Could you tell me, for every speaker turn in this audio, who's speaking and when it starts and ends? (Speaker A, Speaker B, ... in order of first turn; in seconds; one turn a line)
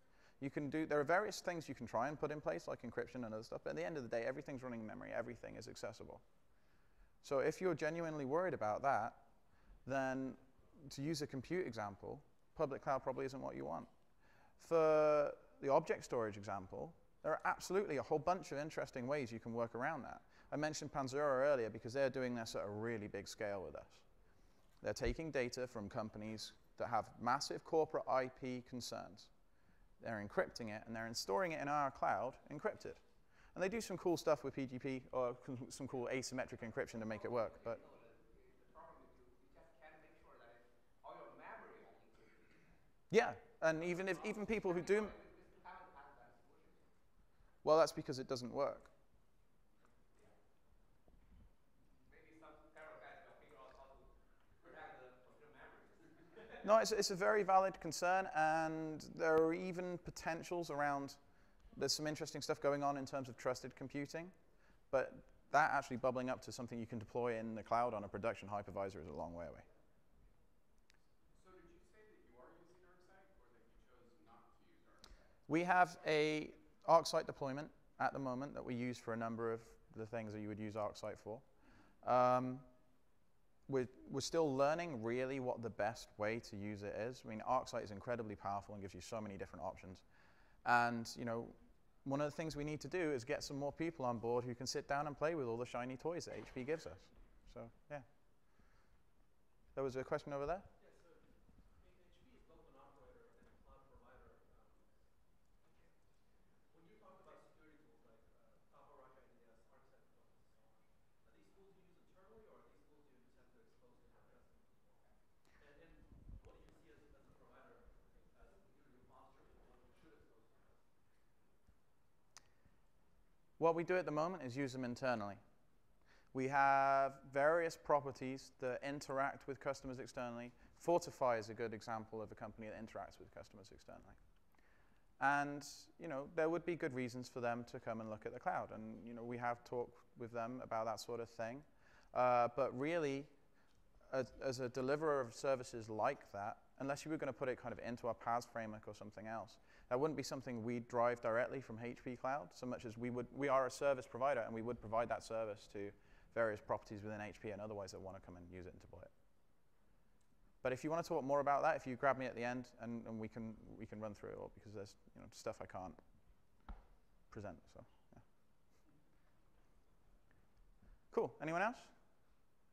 Speaker A: 0.4-6.2
Speaker A: 7.2-9.2
Speaker A: 9.8-13.9
Speaker A: 14.6-24.1
Speaker A: 24.8-29.3
Speaker A: 30.0-37.8
Speaker B: 36.7-42.7
Speaker A: 43.1-45.2
Speaker B: 43.7-46.9
Speaker A: 47.6-48.9
Speaker B: 51.9-56.6
Speaker A: 56.6-61.2
Speaker A: 61.7-64.3
Speaker A: 64.9-69.7
Speaker C: 71.3-75.3
Speaker A: 75.5-81.5
Speaker A: 82.0-82.7
Speaker A: 83.7-90.0
Speaker A: 90.6-98.1
Speaker A: 99.7-100.7
Speaker D: 100.8-120.9
Speaker A: 123.6-125.4
Speaker A: 126.3-134.2
Speaker A: 135.2-143.3
Speaker A: 144.1-159.1
Speaker A: 160.6-166.0
Speaker A: 167.3-168.2
Speaker A: 171.1-171.9